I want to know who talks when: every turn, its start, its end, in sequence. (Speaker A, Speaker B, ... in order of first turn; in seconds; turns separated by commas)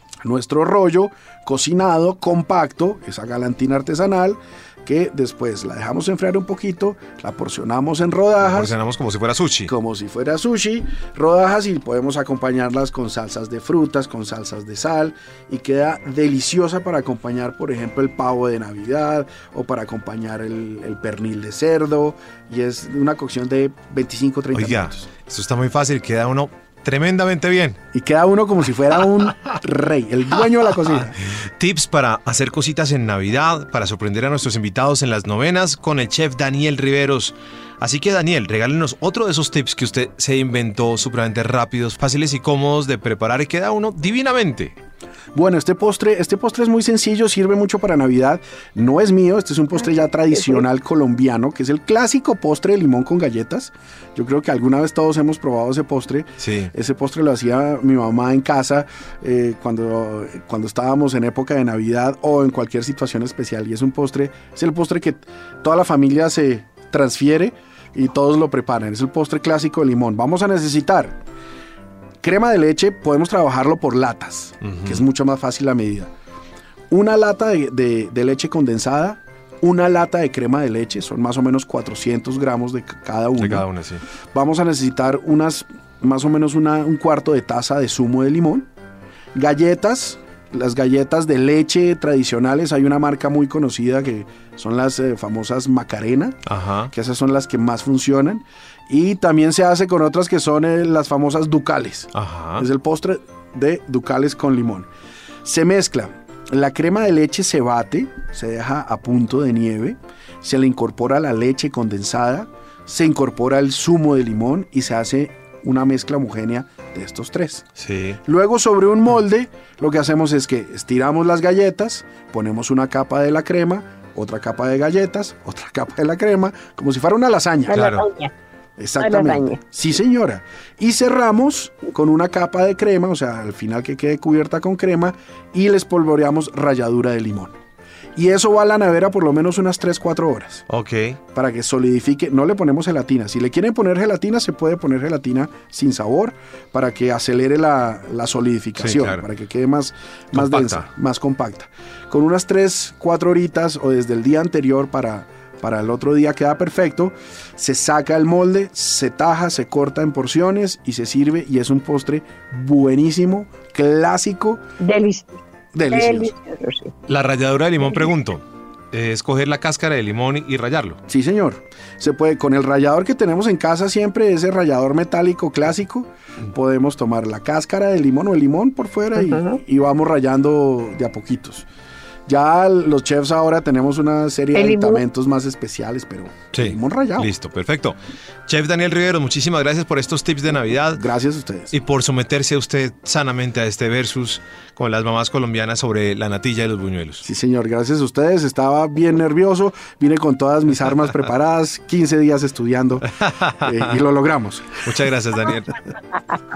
Speaker A: 0.2-8.7, Speaker B: 8.4-9.7, Speaker A: 9.7-25.1, Speaker B: 24.5-27.8, Speaker A: 27.9-31.2, Speaker B: 30.8-44.8, Speaker A: 45.3-71.2, Speaker B: 56.4-56.7, Speaker A: 72.2-76.1, Speaker B: 74.6-75.0, Speaker A: 76.9-83.7, Speaker B: 83.3-84.0, Speaker A: 84.3-88.7, Speaker A: 89.3-104.9, Speaker B: 96.5-96.9, Speaker B: 102.1-102.7, Speaker A: 105.4-117.7, Speaker B: 117.8-118.2, Speaker A: 118.2-127.8, Speaker C: 127.7-128.3, Speaker B: 127.7-128.1, Speaker A: 128.8-137.5, Speaker C: 129.0-129.6, Speaker A: 138.1-140.7, Speaker B: 140.7-141.2, Speaker A: 141.3-164.6, Speaker B: 148.8-149.2, Speaker B: 150.3-150.9, Speaker C: 164.8-166.9, Speaker A: 165.7-166.3, Speaker B: 167.1-171.0, Speaker A: 171.1-181.7, Speaker C: 179.2-179.6, Speaker A: 182.3-187.3, Speaker C: 184.5-185.0, Speaker B: 186.5-191.0, Speaker A: 190.9-191.7, Speaker B: 191.7-197.2, Speaker A: 197.2-204.8, Speaker B: 203.1-204.0, Speaker B: 204.8-205.9